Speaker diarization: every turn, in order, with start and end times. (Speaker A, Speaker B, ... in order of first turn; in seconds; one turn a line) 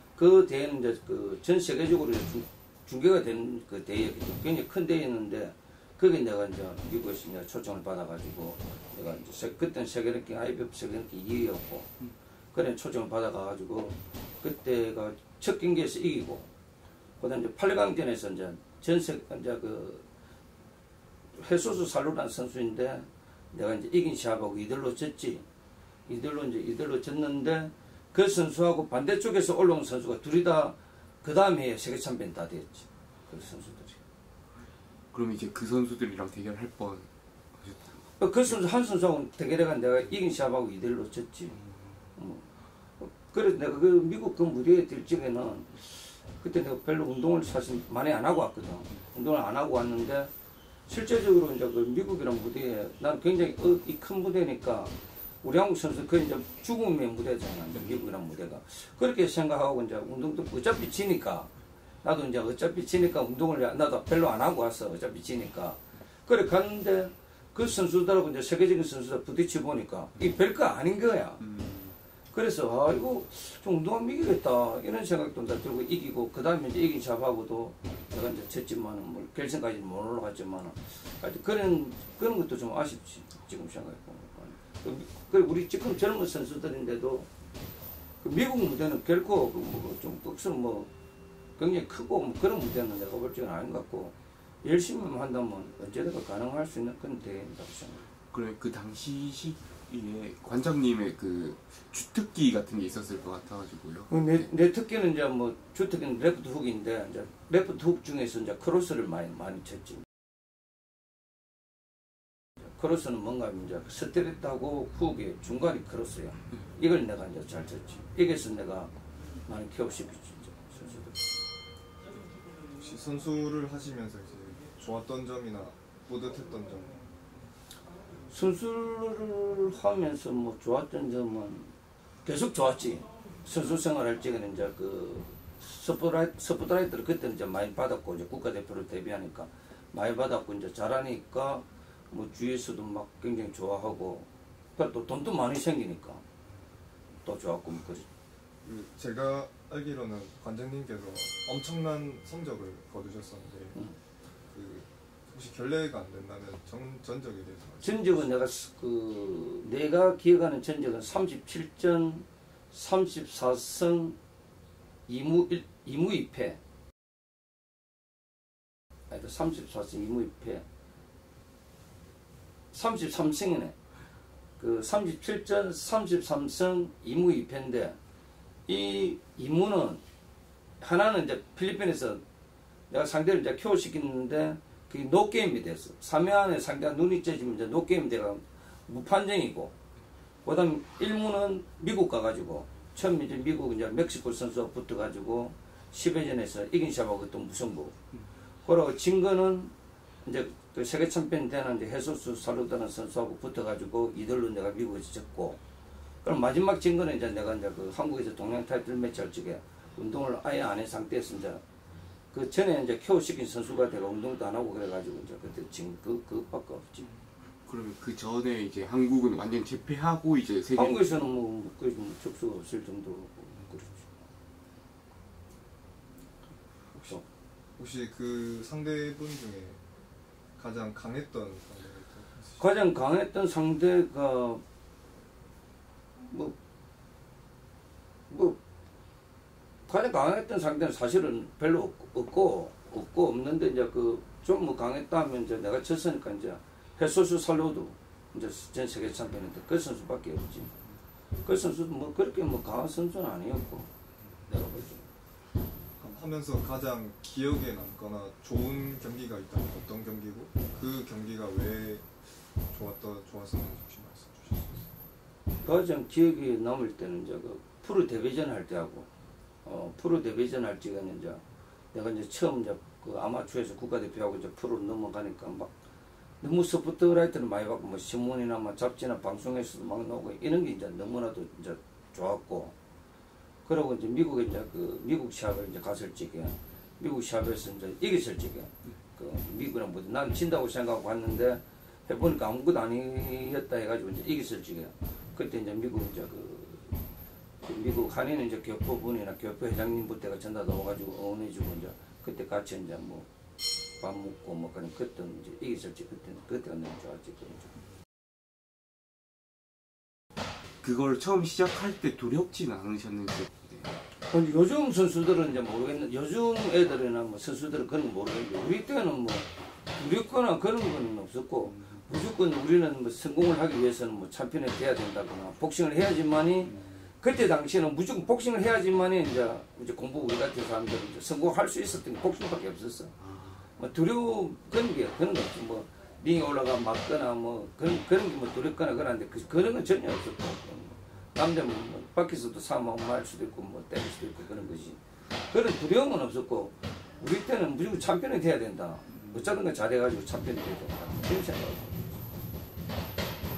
Speaker A: 0.1-11.9
Speaker A: 12.5-16.5
Speaker A: 17.2-20.1
Speaker A: 21.4-25.4
Speaker A: 26.1-34.0
Speaker B: 35.1-37.9
Speaker A: 38.2-41.5
Speaker A: 42.1-42.4
Speaker A: 43.0-45.9
Speaker A: 46.4-50.3
Speaker A: 50.9-61.5
Speaker A: 62.0-71.4
Speaker B: 71.4-71.9
Speaker A: 72.3-87.3
Speaker A: 88.2-90.9
Speaker A: 91.6-98.0
Speaker B: 98.3-104.5
Speaker A: 104.1-110.0
Speaker A: 112.7-118.9
Speaker A: 119.5-121.2
Speaker C: 122.8-127.0
Speaker A: 128.3-131.7
Speaker A: 132.2-146.2
Speaker A: 147.2-148.1
Speaker C: 148.6-153.8
Speaker C: 154.5-158.2
Speaker A: 157.8-164.2
Speaker A: 165.1-166.6
Speaker A: 169.1-170.6
Speaker A: 172.7-173.7
Speaker A: 174.6-178.0
Speaker A: 178.7-180.0
Speaker A: 180.8-182.2
Speaker A: 182.9-189.7
Speaker A: 190.4-197.9
Speaker A: 198.7-205.6
Speaker A: 206.2-211.6
Speaker A: 212.3-217.1
Speaker B: 217.7-221.2
Speaker A: 220.7-224.2
Speaker C: 227.8-229.8
Speaker C: 230.6-232.6
Speaker A: 232.6-234.6
Speaker A: 236.3-236.6
Speaker A: 238.3-238.6
Speaker A: 239.9-250.7
Speaker A: 251.4-253.9
Speaker A: 254.5-255.1
Speaker C: 256.0-262.1
Speaker C: 262.7-264.9
Speaker A: 265.6-269.1
Speaker A: 269.6-275.7
Speaker A: 276.4-282.7
Speaker A: 283.6-296.9
Speaker A: 297.6-303.3
Speaker A: 304.0-307.7
Speaker B: 310.8-313.9
Speaker A: 314.3-333.1
Speaker B: 326.7-327.0
Speaker B: 333.2-333.6
Speaker A: 333.8-352.2